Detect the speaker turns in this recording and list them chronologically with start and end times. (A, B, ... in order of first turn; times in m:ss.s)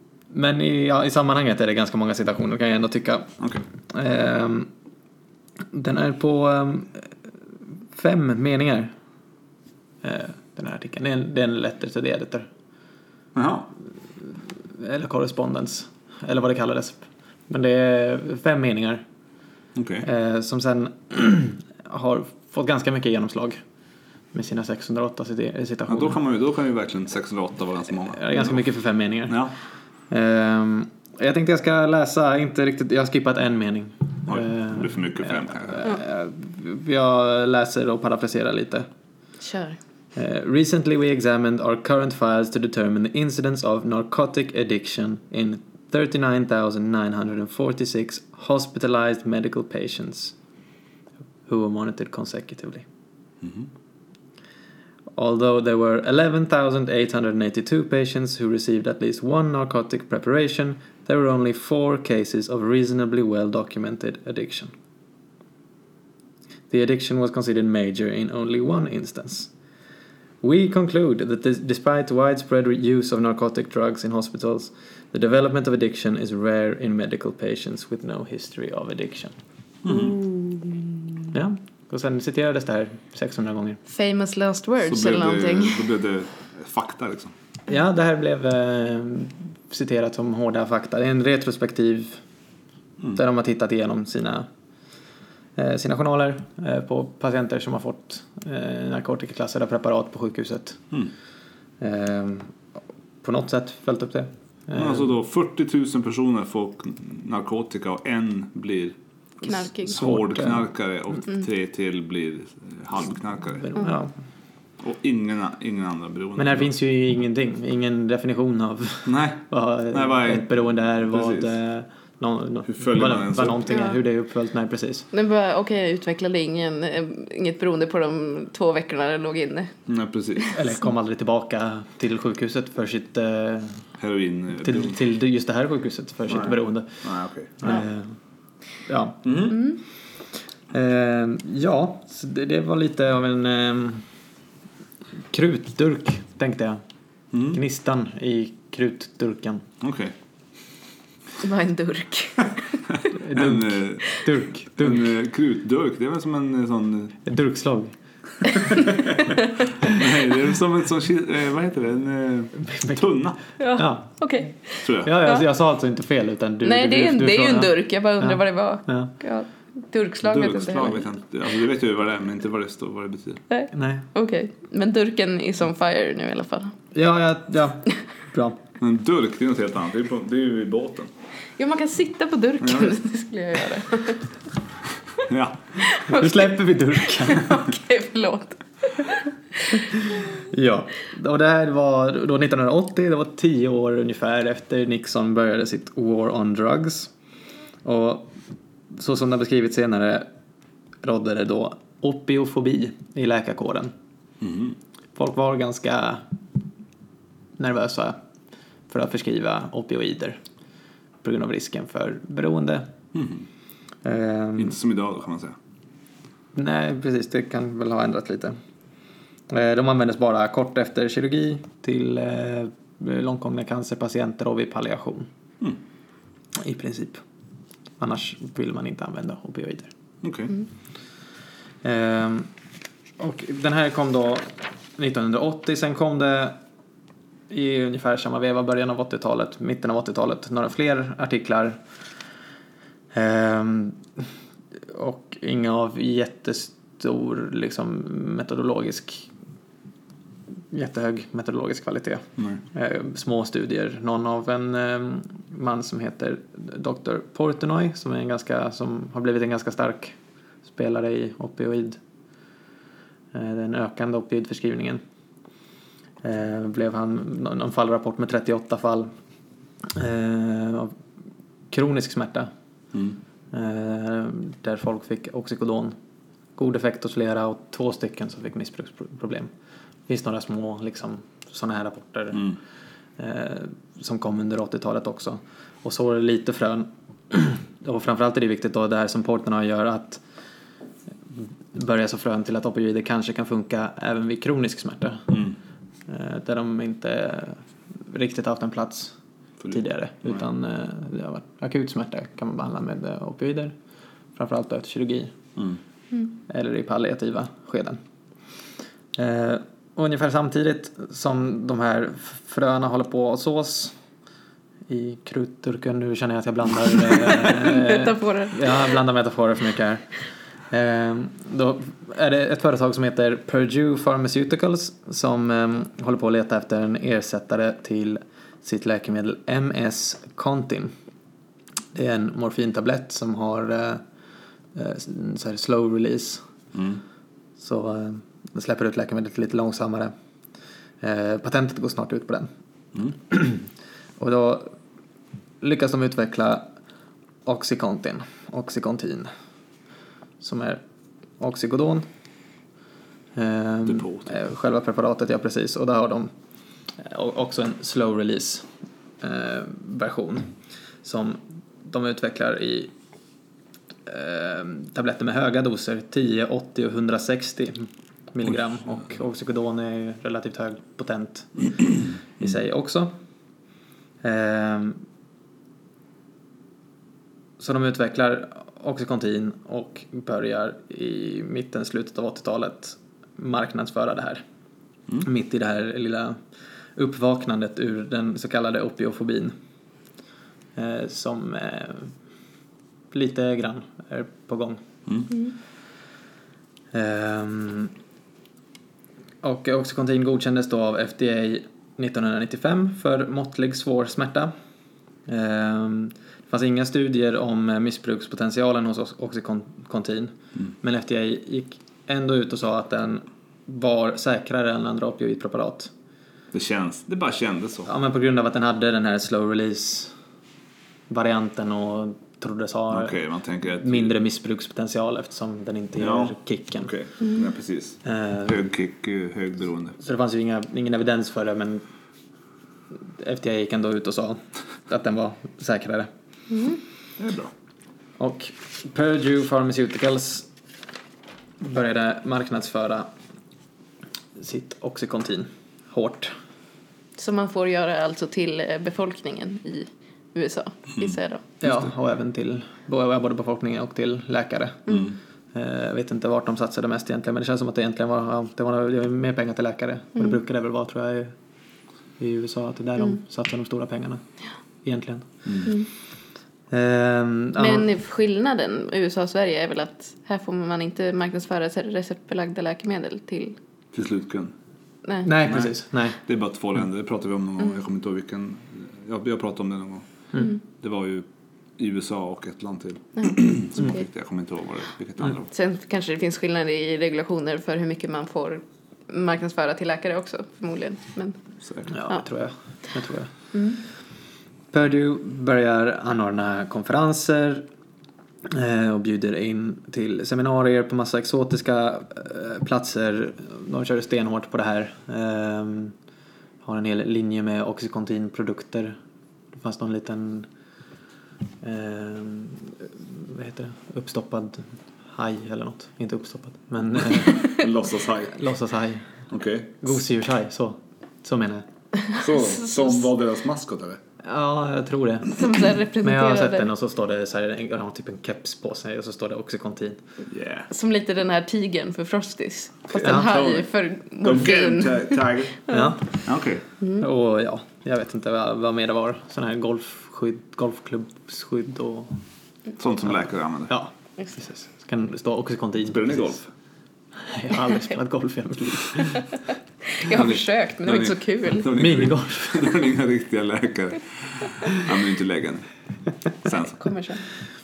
0:00.3-0:03.3 A
0:03.9-0:04.7 A
0:05.7-0:07.1 A
0:07.9-0:08.9 A
0:10.0-0:12.5 A
0:13.4-0:13.7 B
0:14.7-0:19.0 A
0:19.8-0:20.1 B
0:20.0-0:23.6 A
0:24.3-0:26.2 A
0:25.9-0:28.6 B
0:28.1-0:29.4 A
0:29.3-0:29.5 B
0:30.1-0:38.9 A
0:34.3-0:35.8 B
0:39.4-0:39.8 C
0:40.2-0:50.4 A
0:51.5-0:52.8 A
0:53.4-0:53.7 B
0:55.1-1:04.7 A
1:06.7-1:09.5 A
1:10.4-1:19.3 A
1:19.8-1:20.2 B
1:19.9-1:21.0 C
1:21.3-1:23.8 A
1:23.9-1:25.9 C
1:24.8-1:27.3 B
1:27.7-1:32.2 A
1:33.1-1:34.5 A
1:35.6-1:40.8 A
1:41.8-1:42.5 A
1:43.2-1:45.1 A
1:44.8-1:49.0 B
1:49.4-1:50.1 C
1:49.8-1:53.7 B
1:49.9-1:50.7 A
1:53.6-1:54.1 A
1:54.8-1:56.7 B
1:56.4-2:05.1 A
1:59.1-2:00.5 B
2:01.0-2:01.5 B
2:02.7-2:03.6 B
2:03.7-2:04.0 C
2:05.1-2:09.7 C
2:09.9-2:10.6 B
2:10.5-2:13.8 A
2:14.0-2:15.0 B
2:14.6-2:17.0 A
2:16.3-2:17.7 B
2:17.6-2:18.2 A
2:18.9-2:19.5 A
2:19.2-2:19.6 B
2:19.5-2:19.8 C
2:20.7-2:24.0 A
2:25.3-2:26.8 A
2:27.3-2:27.6 B
2:27.5-2:29.6 A
2:29.8-2:30.1 B
2:31.4-2:32.8 C
2:33.1-2:35.1 A
2:33.3-2:34.1 B
2:34.8-2:37.2 B
2:37.2-2:38.0 A
2:38.5-2:38.8 A
2:39.8-2:43.4 B
2:42.6-2:43.2 A
2:43.6-2:45.4 C
2:43.7-2:44.2 A
2:44.8-2:45.1 B
2:45.0-2:49.1 A
2:46.6-2:51.1 C
2:50.2-2:53.4 B
2:53.5-2:56.8 C
2:53.7-2:54.1 A
2:56.9-2:58.6 A
2:58.8-3:01.1 B
3:01.6-3:04.3 C
3:02.6-3:03.0 B
3:05.2-3:05.6 B
3:05.8-3:09.8 C
3:06.1-3:07.5 A
3:10.1-3:17.1 A
3:17.8-3:18.4 A
3:18.9-3:20.3 A
3:21.0-3:23.9 A
3:24.4-3:24.8 B
3:25.2-3:26.3 A
3:27.6-3:28.2 A
3:28.9-3:30.4 A
3:31.2-3:32.9 A
3:33.1-3:33.4 B
3:34.0-3:34.8 A
3:34.6-3:35.6 B
3:36.6-3:38.6 A
3:39.5-3:45.3 A
3:46.5-3:47.2 A
3:48.0-3:49.9 A
3:50.2-3:50.6 B
3:51.8-3:52.5 A
3:53.2-3:56.6 A
3:57.5-4:01.8 A
4:03.1-4:04.2 A
4:04.9-4:09.3 A
4:10.7-4:20.2 A
4:20.7-4:22.0 A
4:23.3-4:25.0 A
4:26.2-4:29.1 A
4:29.9-4:31.0 A
4:31.7-4:32.5 A
4:33.5-4:36.0 A
4:36.6-4:39.5 A
4:40.1-4:42.6 A
4:43.2-4:50.2 A
4:51.4-4:55.4 A
4:56.1-4:59.1 A
4:59.6-5:00.4 B
4:59.7-5:03.7 A
5:04.4-5:05.4 A
5:06.4-5:08.0 A
5:09.2-5:14.0 A
5:14.9-5:20.1 A
5:17.4-5:19.0 C
5:20.7-5:30.9 A
5:31.9-5:34.0 A
5:34.7-5:36.4 A
5:36.7-5:37.0 B
5:37.6-5:40.1 A
5:41.0-5:42.5 A
5:43.3-5:43.7 A
5:44.2-5:44.8 A
5:45.6-5:46.7 A
5:47.4-5:49.3 A
5:50.4-5:50.8 A
5:51.4-5:52.1 A
5:53.4-5:56.3 A
5:53.9-5:54.3 B
5:57.0-5:58.7 A
5:59.2-6:00.5 A
6:01.0-6:02.9 A
6:04.1-6:13.2 A
6:14.2-6:15.0 A
6:17.6-6:24.4 A
6:25.2-6:26.4 A
6:27.0-6:29.5 A
6:30.8-6:32.1 A
6:33.1-6:34.8 A
6:36.9-6:37.9 A
6:39.4-6:44.5 A
6:45.3-6:55.9 A
6:56.5-6:57.9 B
6:57.9-7:00.1 A
7:01.1-7:03.2 A
7:02.9-7:04.1 B
7:03.8-7:06.9 A
7:06.0-7:10.0 B
7:08.0-7:08.7 A
7:10.0-7:11.8 A
7:13.2-7:16.1 A
7:16.5-7:16.8 C
7:17.2-7:17.5 B
7:18.2-7:20.5 A
7:21.6-7:23.1 A
7:24.4-7:26.4 A
7:27.2-7:31.4 C
7:31.6-7:34.9 A
7:35.5-7:41.3 A
7:42.2-7:44.2 A
7:44.8-7:45.4 A
7:46.7-7:47.9 A
7:47.6-7:53.6 C
7:53.9-7:54.5 B
7:55.2-7:56.2 A
7:55.4-8:00.1 B
8:00.7-8:01.3 B
8:01.8-8:05.5 B
8:03.2-8:04.0 C
8:05.5-8:11.4 C
8:11.9-8:13.3 A
8:14.7-8:17.7 A
8:18.5-8:26.0 A
8:26.6-8:29.0 A
8:29.5-8:30.5 A
8:31.6-8:37.5 A
8:37.1-8:38.4 B
8:38.3-8:39.1 A
8:39.3-8:39.8 B
8:39.8-8:41.7 A
8:42.2-8:44.0 B
8:44.2-8:45.4 A
8:45.3-8:46.7 C
8:46.0-8:50.0 A
8:50.3-8:50.7 B
8:50.7-8:55.9 C
8:53.0-8:53.3 A
8:53.1-8:53.7 B
8:54.2-8:55.6 B
8:55.7-8:56.2 A
8:56.2-8:56.6 B
8:57.0-9:02.2 A
9:02.8-9:03.7 B
9:03.7-9:06.4 A
9:05.8-9:06.5 B
9:07.2-9:09.3 A
9:09.9-9:11.7 C
9:10.1-9:15.7 B
9:11.7-9:12.8 A
9:16.4-9:16.8 B
9:16.7-9:17.2 C